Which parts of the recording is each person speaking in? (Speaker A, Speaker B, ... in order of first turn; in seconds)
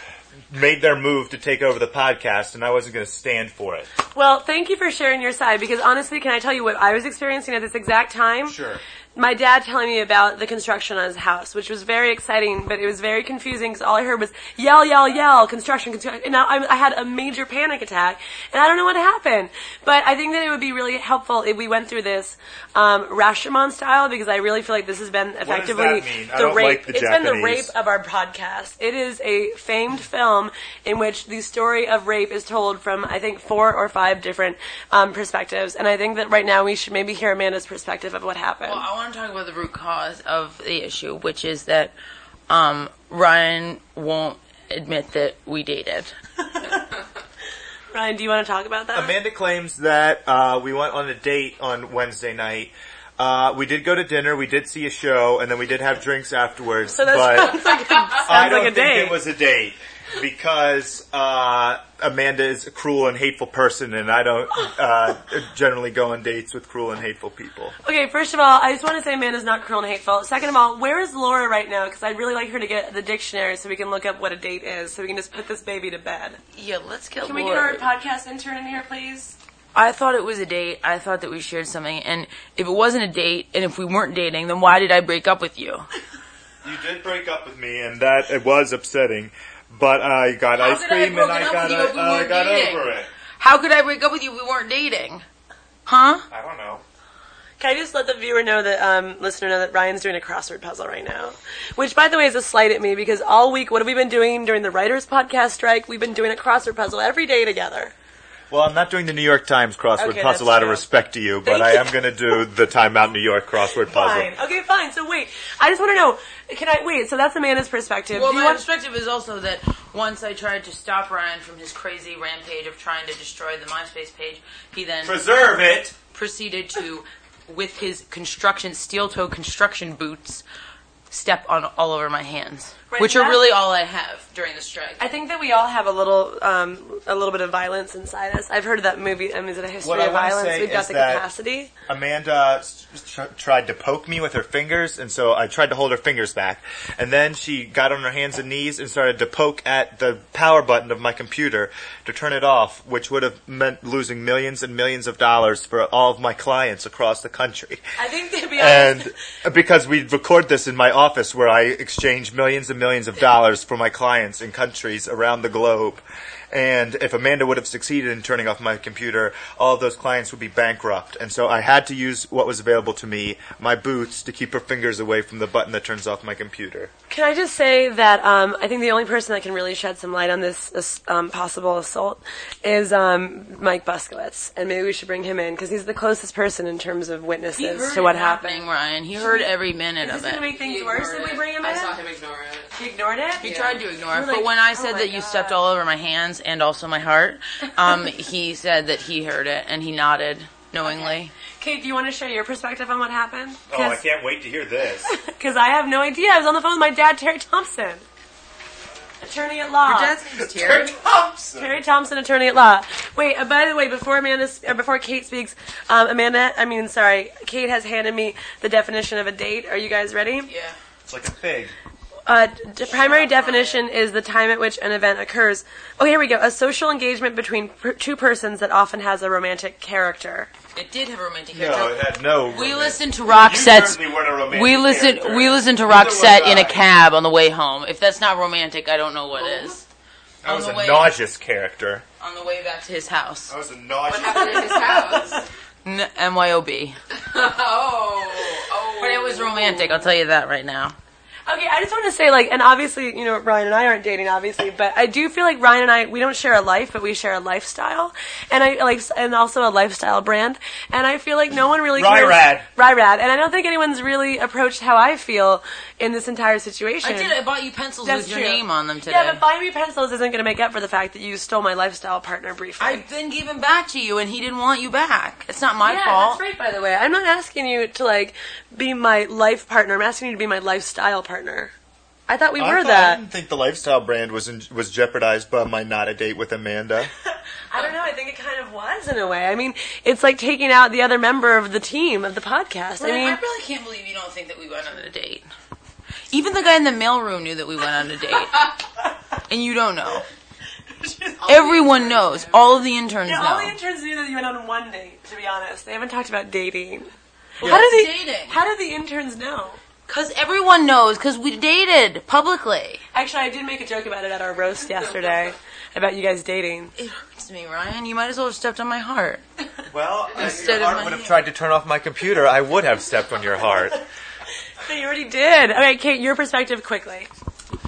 Speaker A: 0.5-3.9, 8.5-8.8, 25.4-27.7, 48.9-57.6, 58.2-67.7, 86.6-93.1, 96.3-96.8, 108.5-114.3, 125.0-126.0, 139.8-141.2, 141.9-157.8, 158.5-176.9, 203.7-205.1, 210.4-211.7, 221.1-221.7, 231.5-236.8, 240.4-242.0, 243.5-245.4, 261.9-262.6, 282.6-287.1, 307.6-307.9, 319.9-324.0
Speaker B: 4.1-8.5, 9.2-38.8, 46.5-46.8, 47.9-49.1, 57.0-59.2, 67.8-76.4, 77.2-79.3, 97.6-107.9, 110.0-110.8, 111.4-111.9, 113.8-118.6, 132.9-133.4, 135.0-141.7, 158.0-159.1, 177.1-189.5, 190.0-192.0, 192.7-195.6, 201.1-204.0, 205.0-208.0, 209.2-210.2, 211.5-220.5, 222.3-230.5, 244.3-245.4, 251.5-267.4, 268.0-273.0, 275.8-281.7, 282.3-283.2, 287.7-293.4, 301.0-301.9, 303.2-307.1, 307.6-309.8, 313.1-316.9, 324.8-327.3
Speaker C: 38.6-41.9, 42.5-46.1, 76.5-77.9, 79.7-85.8, 90.5-95.2, 95.8-96.2, 118.1-125.2, 126.1-130.4, 131.1-135.1, 187.5-190.5, 193.4-201.3, 209.8-210.9, 220.4-220.8, 222.9-223.8, 230.7-239.8, 240.4-241.1, 242.2-243.5, 245.8-247.0, 248.9-250.9, 267.0-269.4, 272.8-276.4, 293.0-295.5, 296.3-298.7, 299.5-300.2, 301.4-303.8, 307.6-308.6, 310.1-313.0, 316.9-319.4, 320.3-321.4
Speaker D: 190.5-192.7, 244.1-245.4, 247.3-249.9